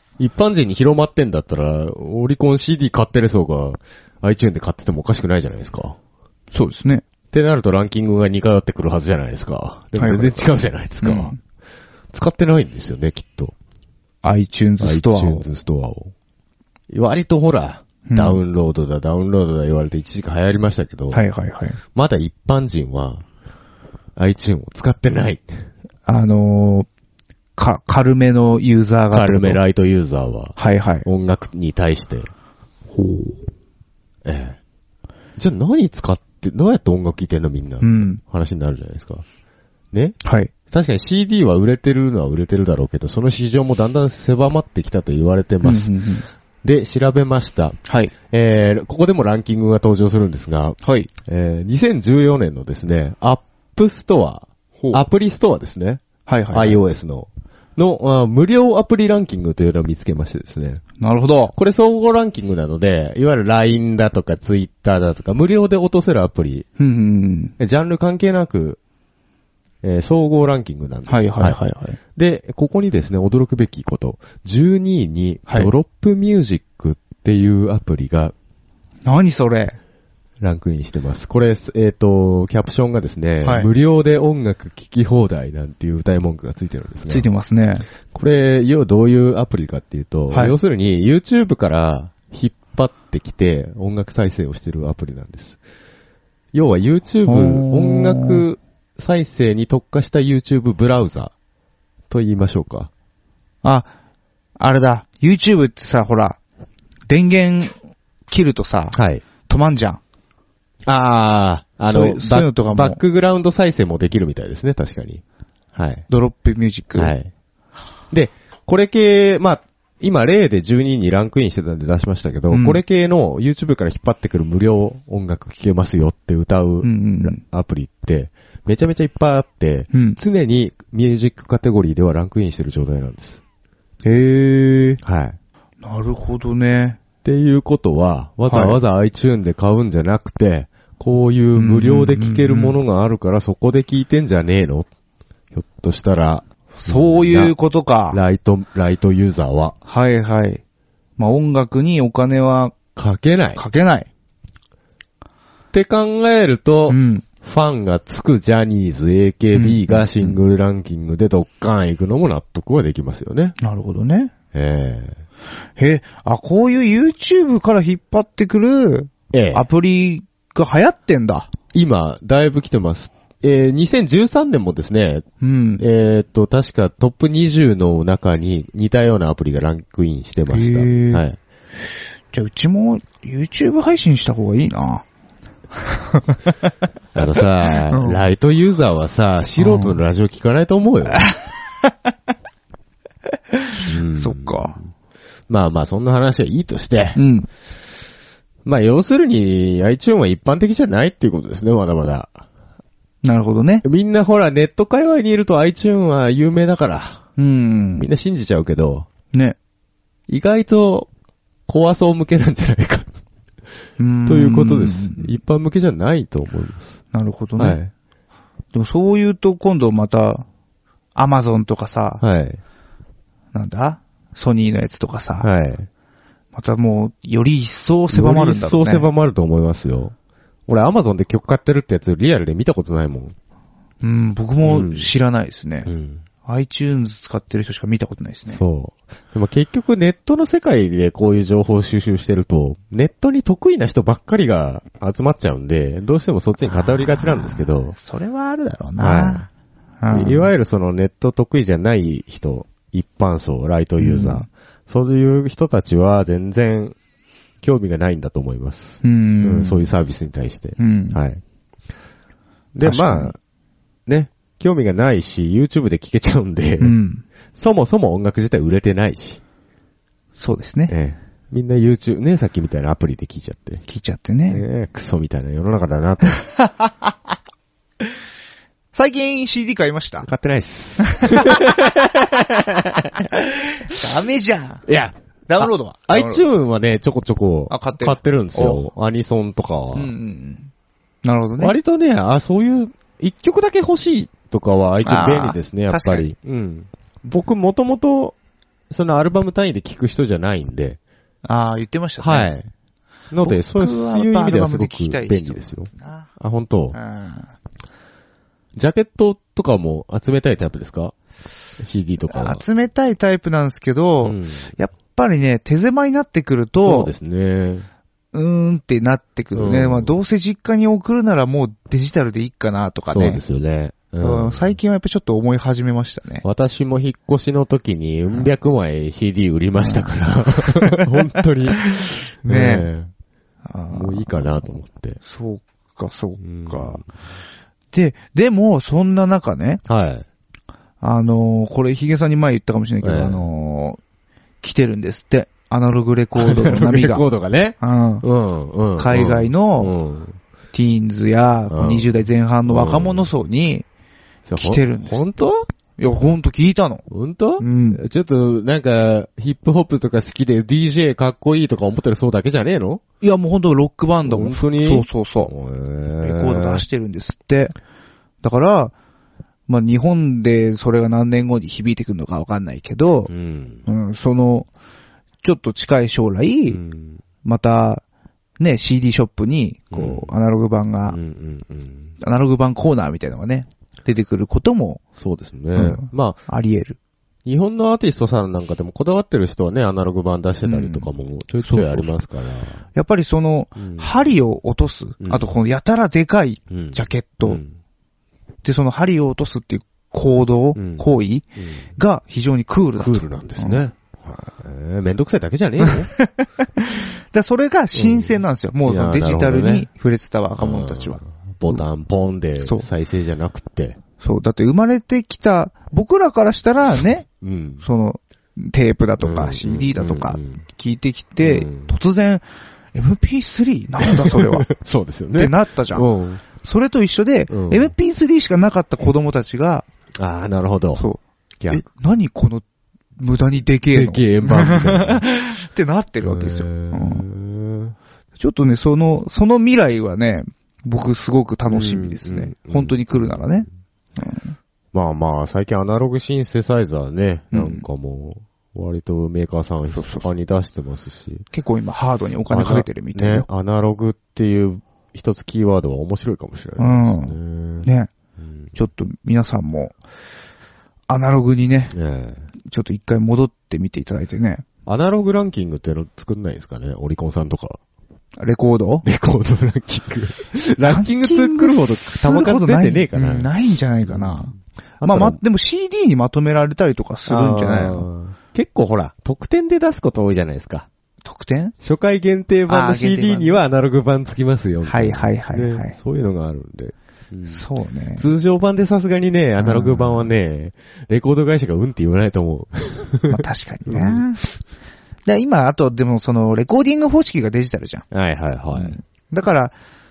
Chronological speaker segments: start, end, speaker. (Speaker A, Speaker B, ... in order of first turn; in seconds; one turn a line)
Speaker A: 0.2-6.0
Speaker B: 6.5-7.0
Speaker A: 7.3-11.3
Speaker B: 10.0-10.4
Speaker B: 11.0-11.4
Speaker A: 12.1-13.5
Speaker B: 14.2-15.5
Speaker A: 14.8-16.1
Speaker A: 16.9-21.2
Speaker B: 18.1-18.4
Speaker B: 21.1-21.8
Speaker A: 21.9-23.2
Speaker A: 24.2-25.7
Speaker B: 26.1-26.9
Speaker B: 27.6-29.6
Speaker A: 29.1-32.3
Speaker B: 30.6-31.1
Speaker B: 32.9-33.4
Speaker A: 34.2-34.6
Speaker A: 35.4-39.2
Speaker B: 37.8-38.2
Speaker A: 39.9-45.9
Speaker B: 40.2-40.5
Speaker B: 45.6-46.3
Speaker A: 46.6-47.8
Speaker B: 47.9-48.1
Speaker A: 48.3-60.8
Speaker B: 50.8-51.1
Speaker B: 56.3-56.8
Speaker B: 61.0-61.5
Speaker A: 61.5-66.7
Speaker B: 66.8-67.5
Speaker A: 67.6-68.8
Speaker A: 69.8-71.6
Speaker B: 71.1-72.0
Speaker A: 72.2-78.3
Speaker B: 75.5-75.7
Speaker B: 79.0-79.8
Speaker A: 80.4-87.3
Speaker B: 83.4-83.7
Speaker B: 87.1-87.9
Speaker A: 88.1-95.6
Speaker B: 90.3-90.6
Speaker A: 96.5-101.3
Speaker B: 97.3-98.4
Speaker A: 102.1-102.9
Speaker B: 103.6-103.9
Speaker B: 104.6-106.4
Speaker B: 107.1-107.8
Speaker B: 108.3-110.0
Speaker A: 108.9-109.2
Speaker A: 110.9-115.2
Speaker B: 111.9-113.0
Speaker A: 115.8-116.1
Speaker B: 116.1-117.2
Speaker A: 117.0-117.3
Speaker A: 118.1-133.4
Speaker B: 122.5-122.8
Speaker B: 126.8-127.4
Speaker B: 129.9-130.2
Speaker B: 134.0-135.0
Speaker A: 135.0-135.4
Speaker B: 135.8-137.0
Speaker A: 137.2-144.9
Speaker B: 138.5-138.8
Speaker B: 141.6-142.8
Speaker A: 145.5-147.5
Speaker B: 146.8-148.2
Speaker A: 148.1-149.8
Speaker B: 149.9-150.6
Speaker B: 151.2-152.8
Speaker A: 153.0-153.6
Speaker B: 153.6-154.1
Speaker A: 155.7-163.6
Speaker B: 156.9-157.3
Speaker B: 159.5-160.4
Speaker B: 163.6-164.3
Speaker A: 164.5-165.2
Speaker B: 165.8-171.5
Speaker A: 169.3-169.7
Speaker A: 171.7-175.3
Speaker B: 175.4-175.8
Speaker A: 175.8-181.4
Speaker B: 180.5-181.2
Speaker B: 182.3-185.1
Speaker B: 185.9-186.3
Speaker A: 187.2-191.2
Speaker B: 187.9-188.2
Speaker B: 189.6-190.0
Speaker B: 191.1-191.4
Speaker B: 193.6-194.8
Speaker A: 193.8-194.8
Speaker A: 195.5-197.2
Speaker B: 197.2-197.5
Speaker A: 198.7-202.4
Speaker B: 203.2-203.8
Speaker A: 203.8-207.3
Speaker B: 207.4-208.1
Speaker A: 208.0-209.1
Speaker A: 210.3-211.1
Speaker A: 211.7-213.2
Speaker B: 214.0-215.3
Speaker A: 214.3-217.0
Speaker B: 217.1-217.8
Speaker A: 217.6-217.9
Speaker B: 218.7-220.5
Speaker B: 221.2-222.2
Speaker A: 222.2-222.6
Speaker B: 223.5-225.5
Speaker A: 225.4-225.9
Speaker B: 226.5-229.1
Speaker A: 228.1-230.2
Speaker A: 230.7-233.3
Speaker B: 234.0-235.9
Speaker A: 234.6-235.1
Speaker A: 235.9-236.2
Speaker B: 236.4-238.6
Speaker A: 238.5-247.9
Speaker B: 246.7-249.5
Speaker A: 249.0-249.5
Speaker B: 250.0-250.5
Speaker A: 250.1-257.0
Speaker B: 254.0-254.5
Speaker A: 257.6-261.4
Speaker B: 259.0-259.9
Speaker B: 260.8-261.2
Speaker A: 262.7-263.4
Speaker B: 262.8-263.3
Speaker A: 264.1-267.0
Speaker B: 266.8-267.2
Speaker A: 267.5-269.4
Speaker B: 270.4-270.9
Speaker A: 270.9-273.8
Speaker B: 273.9-274.6
Speaker A: 274.5-276.4
Speaker B: 276.4-276.9
Speaker B: 278.9-280.3
Speaker A: 280.2-283.3
Speaker B: 281.0-281.9
Speaker B: 283.7-284.9
Speaker A: 284.9-290.1
Speaker B: 285.5-286.4
Speaker B: 287.7-288.9
Speaker B: 289.9-290.7
Speaker B: 291.2-291.8
Speaker A: 291.6-298.4
Speaker B: 295.0-296.3
Speaker A: 298.9-301.0
Speaker B: 301.4-302.5
Speaker A: 302.2-302.7
Speaker A: 303.3-307.0
Speaker B: 303.4-306.3
Speaker B: 306.9-307.5
Speaker A: 308.8-311.1
Speaker A: 311.8-312.6
Speaker B: 312.3-317.1
Speaker A: 314.2-314.7
Speaker A: 316.8-317.9
Speaker B: 318.3-323.4
Speaker A: 319.5-320.2
Speaker A: 323.1-324.8
Speaker B: 324.2-326.4
Speaker A: 326.4-333.1
Speaker B: 329.8-331.1
Speaker B: 331.7-332.9
Speaker B: 333.7-334.5
Speaker A: 333.9-335.2
Speaker B: 335.2-337.0
Speaker A: 336.4-337.1
Speaker B: 337.9-339.8
Speaker A: 339.9-340.3
Speaker B: 341.0-344.0
Speaker A: 343.0-343.5
Speaker B: 344.6-347.2
Speaker A: 346.4-350.4
Speaker B: 347.8-348.2
Speaker B: 349.0-349.9
Speaker B: 350.7-353.9
Speaker A: 351.7-352.1
Speaker A: 352.7-353.3
Speaker A: 354.5-355.6
Speaker B: 354.6-355.3
Speaker B: 356.0-357.0
Speaker A: 357.1-363.0
Speaker B: 357.6-358.0
Speaker B: 363.2-365.5
Speaker A: 364.2-366.9
Speaker B: 366.2-367.8
Speaker B: 368.4-368.9
Speaker B: 369.7-373.3
Speaker A: 373.3-373.9
Speaker B: 373.9-374.7
Speaker B: 375.4-376.8
Speaker A: 376.7-377.2
Speaker B: 377.4-378.0
Speaker B: 378.6-381.2
Speaker A: 379.9-380.3
Speaker A: 381.1-382.1
Speaker B: 382.2-385.0
Speaker A: 385.2-386.4
Speaker B: 385.8-387.0
Speaker A: 387.5-392.8
Speaker B: 390.6-391.1
Speaker B: 391.6-392.1
Speaker B: 392.9-397.6
Speaker A: 393.8-394.3
Speaker A: 395.2-395.5
Speaker A: 396.7-397.7
Speaker B: 398.6-403.8
Speaker A: 400.8-401.9
Speaker A: 403.0-406.1
Speaker B: 405.8-411.9
Speaker A: 407.9-409.9
Speaker A: 410.6-414.0
Speaker B: 412.6-412.9
Speaker B: 414.2-417.3
Speaker A: 417.4-417.9
Speaker B: 417.8-424.7
Speaker A: 419.2-420.6
Speaker A: 421.4-421.9
Speaker A: 424.0-426.4
Speaker B: 425.4-429.9
Speaker A: 427.5-427.9
Speaker A: 430.2-431.1
Speaker B: 431.0-432.6
Speaker B: 433.2-437.3
Speaker A: 433.9-435.2
Speaker A: 436.2-438.0
Speaker B: 438.4-444.6
Speaker A: 441.7-443.4
Speaker A: 444.9-451.5
Speaker B: 447.5-447.9
Speaker B: 449.9-450.3
Speaker B: 451.5-453.5
Speaker A: 452.5-458.7
Speaker B: 456.8-458.1
Speaker B: 458.7-460.0
Speaker B: 461.1-461.9
Speaker A: 461.9-462.5
Speaker B: 462.6-464.6
Speaker A: 464.9-467.8
Speaker B: 468.4-469.1
Speaker A: 469.0-473.5
Speaker B: 470.8-478.1
Speaker A: 474.1-475.4
Speaker A: 477.3-480.9
Speaker B: 481.2-481.7
Speaker A: 481.8-487.6
Speaker B: 482.7-483.6
Speaker B: 484.9-485.9
Speaker B: 487.5-488.3
Speaker A: 488.2-494.3
Speaker B: 489.6-490.3
Speaker B: 493.3-494.4
Speaker B: 495.2-498.1
Speaker A: 498.1-499.0
Speaker B: 498.7-499.7